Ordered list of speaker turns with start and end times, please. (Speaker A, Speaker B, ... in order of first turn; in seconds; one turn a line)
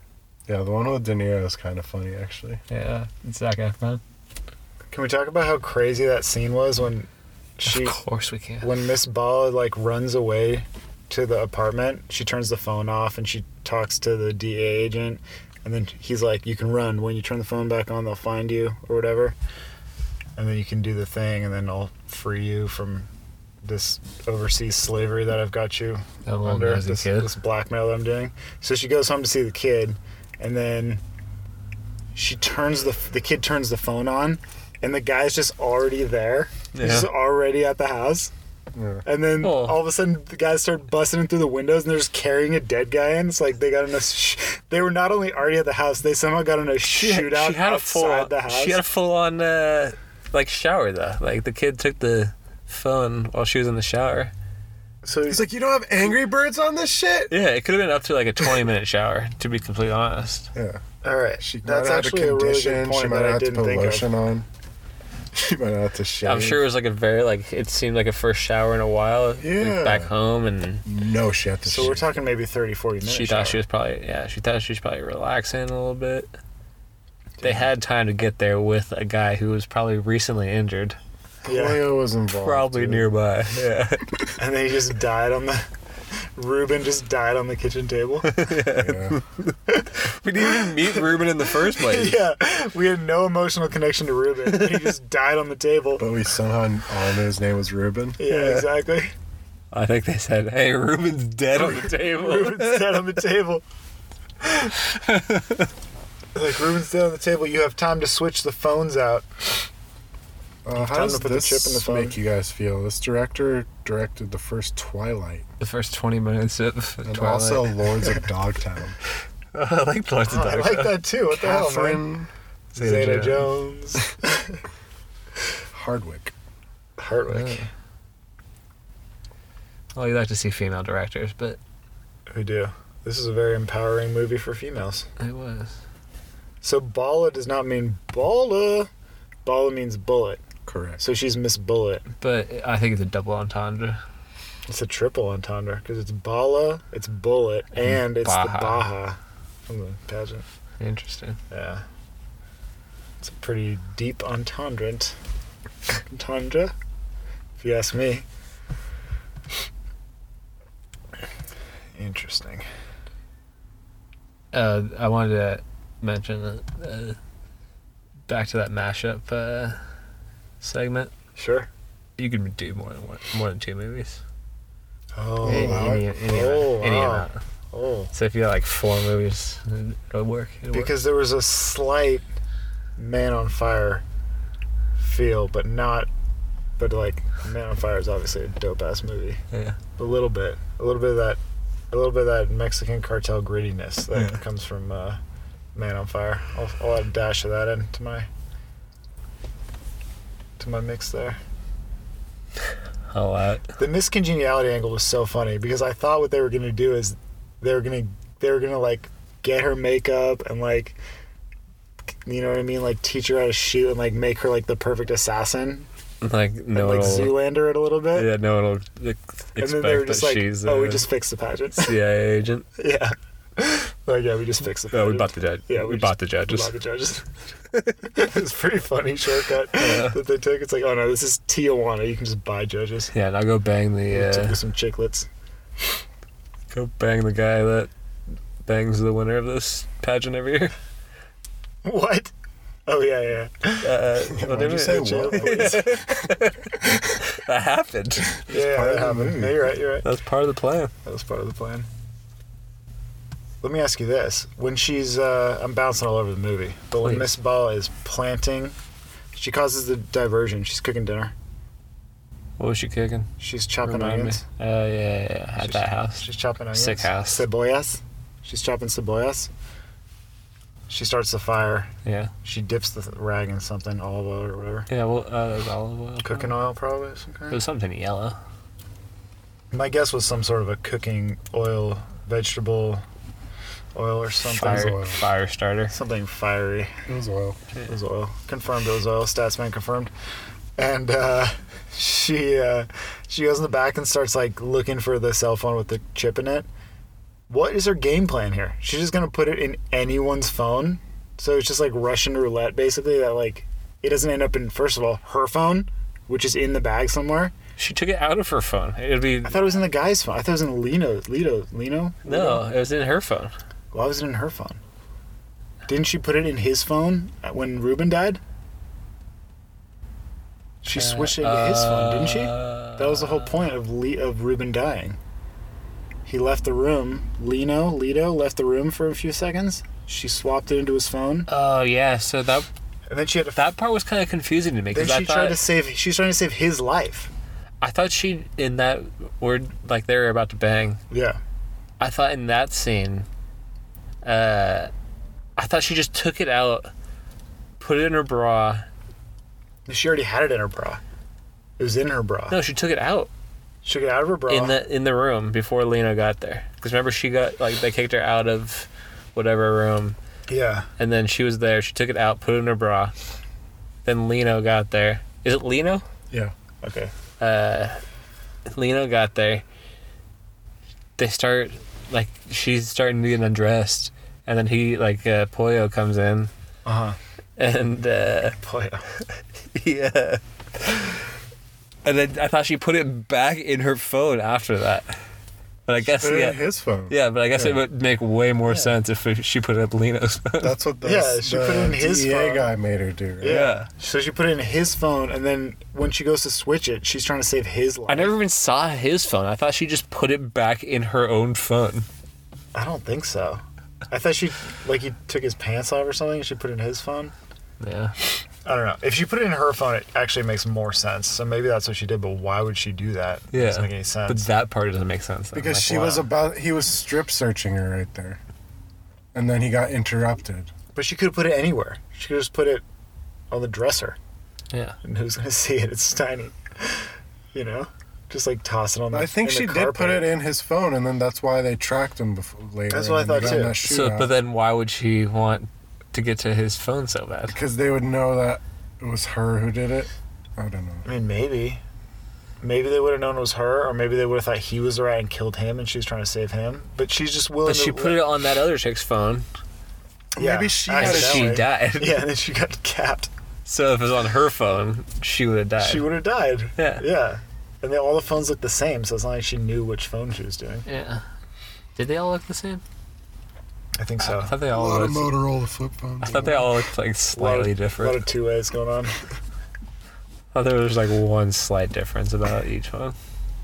Speaker A: 0.5-2.6
Speaker B: 2.7-4.0
Speaker C: 4.9-8.0
Speaker B: 7.6-8.7
Speaker C: 8.6-19.3
Speaker C: 20.4-23.1
Speaker C: 23.6-31.0
Speaker B: 26.2-27.3
Speaker C: 32.1-38.3
Speaker B: 36.7-37.1
Speaker A: 38.7-39.0
Speaker C: 39.0-48.8
Speaker B: 39.4-39.8
Speaker B: 46.9-54.3
Speaker C: 55.0-55.4
Speaker A: 55.3-57.3
Speaker B: 57.3-60.5
Speaker A: 60.5-60.8
Speaker C: 61.0-64.1
Speaker A: 61.4-64.5
Speaker A: 65.3-66.6
Speaker B: 66.2-70.8
Speaker A: 69.4-70.1
Speaker A: 70.8-72.0
Speaker C: 71.7-73.6
Speaker B: 73.0-76.3
Speaker C: 77.4-77.7
Speaker B: 77.4-81.0
Speaker C: 81.4-81.8
Speaker A: 81.4-83.1
Speaker B: 82.4-84.2
Speaker C: 84.4-85.7
Speaker C: 86.3-88.3
Speaker B: 88.2-92.2
Speaker A: 88.8-89.2
Speaker C: 90.5-91.0
Speaker C: 91.7-96.0
Speaker A: 96.0-98.2
Speaker C: 98.2-99.1
Speaker B: 98.3-98.6
Speaker B: 99.7-103.1
Speaker C: 101.5-103.6
Speaker B: 104.5-105.7
Speaker C: 106.3-109.5
Speaker A: 110.6-115.5
Speaker C: 110.7-112.2
Speaker B: 115.6-117.9
Speaker A: 117.0-119.0
Speaker B: 119.5-121.0
Speaker C: 120.2-122.0
Speaker A: 121.3-122.3
Speaker C: 122.7-124.6
Speaker B: 122.8-123.5
Speaker A: 125.7-126.3
Speaker C: 127.0-127.7
Speaker B: 127.3-127.6
Speaker B: 129.9-131.6
Speaker C: 132.3-135.1
Speaker B: 135.2-135.8
Speaker C: 136.6-138.9
Speaker C: 139.4-140.4
Speaker A: 140.7-141.0
Speaker C: 141.0-142.1
Speaker B: 142.2-144.0
Speaker C: 144.7-150.4
Speaker B: 147.8-148.8
Speaker B: 150.8-151.4
Speaker C: 151.5-151.8
Speaker C: 153.2-155.2
Speaker C: 155.9-156.7
Speaker C: 157.6-158.2
Speaker C: 161.9-162.6
Speaker B: 164.5-167.2
Speaker B: 168.3-169.8
Speaker B: 170.6-171.1
Speaker C: 171.3-171.7
Speaker B: 172.2-174.2
Speaker C: 175.1-178.1
Speaker B: 175.4-177.4
Speaker A: 175.5-176.0
Speaker B: 178.1-180.9
Speaker C: 180.7-182.2
Speaker C: 183.0-184.0
Speaker C: 185.0-186.1
Speaker C: 186.8-189.4
Speaker B: 189.5-189.8
Speaker C: 190.0-191.4
Speaker C: 191.9-195.2
Speaker C: 195.7-198.3
Speaker C: 200.6-201.4
Speaker B: 203.1-203.7
Speaker C: 203.8-211.0
Speaker C: 212.2-215.9
Speaker B: 216.2-217.4
Speaker C: 216.7-218.3
Speaker B: 218.1-221.0
Speaker C: 219.6-221.9
Speaker B: 221.8-222.7
Speaker C: 222.8-227.2
Speaker B: 224.9-226.7
Speaker B: 227.7-228.0
Speaker C: 228.0-233.1
Speaker B: 229.7-230.2
Speaker B: 233.1-234.6
Speaker C: 234.1-235.3
Speaker B: 236.7-237.9
Speaker B: 238.6-240.7
Speaker C: 241.8-242.3
Speaker C: 242.8-243.9
Speaker B: 243.8-248.3
Speaker A: 244.3-247.2
Speaker C: 244.5-245.9
Speaker A: 248.4-249.7
Speaker C: 248.5-250.1
Speaker B: 250.0-250.9
Speaker C: 251.0-251.9
Speaker C: 253.6-258.8
Speaker B: 257.0-257.3
Speaker C: 259.3-261.3
Speaker B: 262.6-263.3
Speaker C: 263.4-264.4
Speaker B: 263.8-267.4
Speaker C: 265.6-269.5
Speaker C: 270.9-271.9
Speaker B: 272.0-272.3
Speaker C: 272.4-274.9
Speaker B: 274.9-276.5
Speaker C: 276.2-277.6
Speaker B: 277.5-278.4
Speaker C: 279.7-283.0
Speaker C: 283.9-285.0
Speaker B: 284.4-285.9
Speaker A: 284.6-285.2
Speaker C: 285.9-287.0
Speaker A: 287.1-287.6
Speaker C: 287.9-290.1
Speaker C: 290.8-296.7
Speaker C: 297.5-307.5
Speaker B: 307.8-309.7
Speaker C: 309.4-312.6
Speaker B: 312.2-313.5
Speaker C: 313.9-314.8
Speaker C: 315.9-318.4
Speaker C: 320.8-325.2
Speaker B: 320.9-323.6
Speaker C: 326.3-331.5
Speaker B: 331.5-332.7
Speaker C: 333.1-333.7
Speaker B: 333.5-335.6
Speaker C: 334.9-337.3
Speaker B: 337.8-341.0
Speaker C: 341.1-341.4
Speaker B: 342.0-343.3
Speaker B: 344.2-344.9
Speaker B: 345.6-346.9
Speaker B: 347.8-348.9
Speaker C: 349.9-351.0
Speaker C: 351.8-352.6
Speaker B: 352.5-353.3
Speaker C: 353.8-354.8
Speaker B: 354.5-360.2
Speaker C: 360.5-360.9
Speaker B: 361.0-363.1
Speaker B: 364.0-366.0
Speaker C: 366.8-367.1
Speaker B: 367.4-368.0
Speaker B: 368.7-369.6
Speaker B: 371.2-376.5
Speaker C: 376.8-377.2
Speaker B: 377.6-378.6
Speaker C: 378.6-379.1
Speaker B: 379.7-381.2
Speaker B: 382.0-385.2
Speaker B: 385.9-390.7
Speaker A: 386.0-387.8
Speaker C: 388.7-388.9
Speaker A: 390.6-393.6
Speaker C: 391.0-392.7
Speaker C: 393.4-398.3
Speaker B: 393.4-393.9
Speaker B: 398.1-402.1
Speaker C: 402.7-407.3
Speaker B: 407.8-408.1
Speaker C: 408.6-414.5
Speaker B: 413.5-416.2
Speaker A: 415.5-418.4
Speaker A: 419.3-420.7
Speaker C: 420.9-422.8
Speaker C: 423.5-424.2
Speaker C: 425.0-430.3
Speaker A: 429.1-434.3
Speaker C: 432.9-433.8
Speaker B: 433.8-437.6
Speaker A: 437.5-441.1
Speaker C: 441.0-441.8
Speaker C: 442.6-448.2
Speaker B: 447.6-449.4
Speaker A: 450.3-451.6
Speaker C: 450.4-453.3
Speaker B: 450.9-452.2
Speaker B: 453.6-456.1
Speaker C: 455.8-460.8
Speaker B: 456.8-457.0
Speaker B: 460.9-461.2
Speaker B: 461.9-462.8
Speaker C: 463.9-464.5
Speaker B: 464.2-465.3
Speaker A: 464.7-466.6
Speaker B: 466.2-468.2
Speaker C: 467.3-469.2
Speaker B: 470.5-473.1